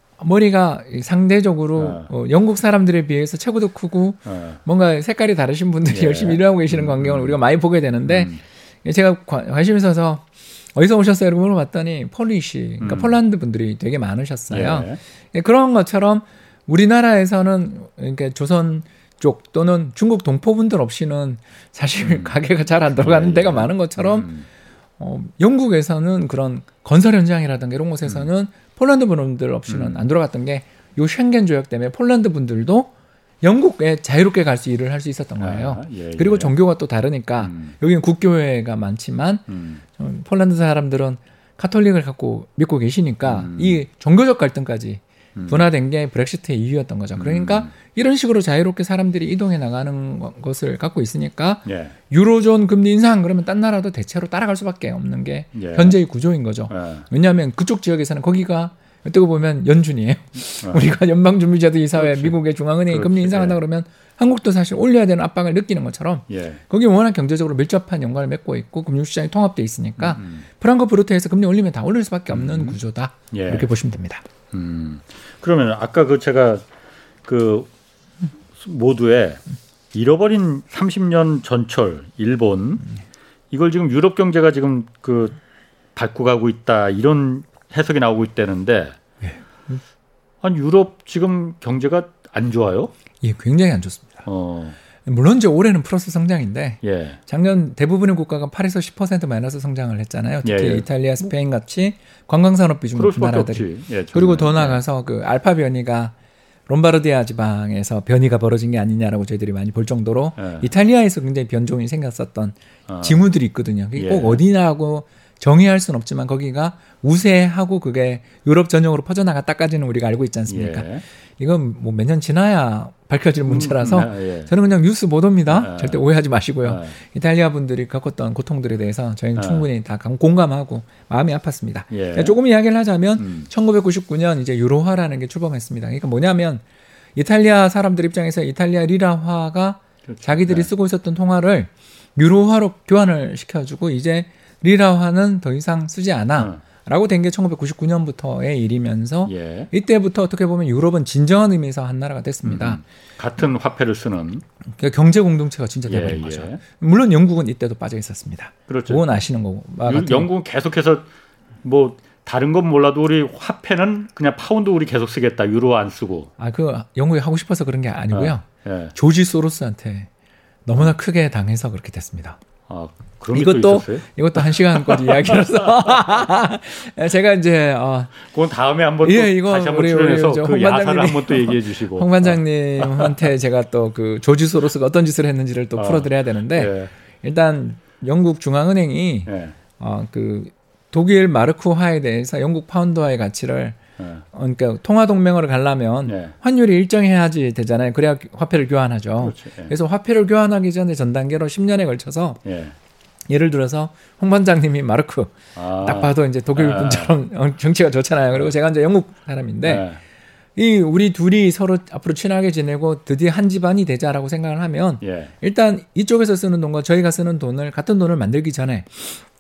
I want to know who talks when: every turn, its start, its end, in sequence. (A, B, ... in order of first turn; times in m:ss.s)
0:00.2-0:24.3 A
0:01.8-0:02.1 B
0:04.3-0:04.6 B
0:05.9-0:07.4 B
0:08.1-0:08.4 B
0:12.8-0:13.1 B
0:14.5-0:15.0 B
0:22.0-0:22.3 B
0:23.0-0:24.5 B
0:25.0-0:32.9 A
0:29.7-0:30.0 B
0:33.4-0:39.4 A
0:35.4-0:36.5 B
0:37.4-0:37.7 B
0:39.5-0:39.8 B
0:40.0-1:14.2 A
0:43.2-0:43.8 B
0:45.4-0:45.7 B
0:47.2-0:47.7 B
0:51.7-0:52.0 B
0:55.6-0:56.0 B
0:56.7-0:57.1 B
1:01.9-1:02.4 B
1:02.9-1:03.6 B
1:06.3-1:06.6 B
1:10.0-1:10.4 B
1:12.3-1:12.8 B
1:13.3-1:13.7 B
1:14.5-1:16.6 B
1:17.2-1:17.7 B
1:18.6-1:19.4 B
1:19.9-1:22.8 B
1:23.5-1:25.4 B
1:26.0-1:29.0 B
1:29.2-1:29.8 A
1:30.4-1:32.9 B
1:33.2-1:34.2 A
1:34.2-1:34.8 B
1:35.0-1:46.1 A
1:36.8-1:37.2 B
1:40.4-1:40.9 B
1:43.0-1:44.8 B
1:46.7-2:16.6 A
1:50.4-1:50.7 B
1:52.9-1:53.3 B
1:54.0-1:54.4 B
2:00.5-2:01.0 B
2:03.4-2:04.5 B
2:05.5-2:06.0 B
2:06.6-2:07.0 B
2:09.4-2:09.7 B
2:11.9-2:12.4 B
2:13.2-2:13.5 B
2:17.2-2:32.8 A
2:20.1-2:20.7 B
2:29.3-2:29.7 B
2:32.4-2:34.4 B
2:34.8-2:40.3 A
2:35.9-2:36.6 B
2:38.7-2:39.2 B
2:39.8-2:41.1 B
2:41.6-2:46.3 B
2:46.4-2:50.1 A
2:48.1-2:48.9 B
2:50.6-2:52.4 A
2:52.7-2:56.0 B
2:53.3-2:58.2 A
2:58.2-3:03.3 B
2:59.0-3:06.7 A
3:05.8-3:06.9 B
3:07.2-3:13.8 A
3:09.3-3:09.6 B
3:14.0-3:14.2 B
3:14.3-3:22.4 A
3:16.1-3:16.3 B
3:19.2-3:19.7 B
3:22.4-3:22.8 B
3:23.3-3:29.9 A
3:25.6-3:27.1 B
3:29.6-3:30.0 B
3:30.6-3:39.2 A
3:35.0-3:35.3 B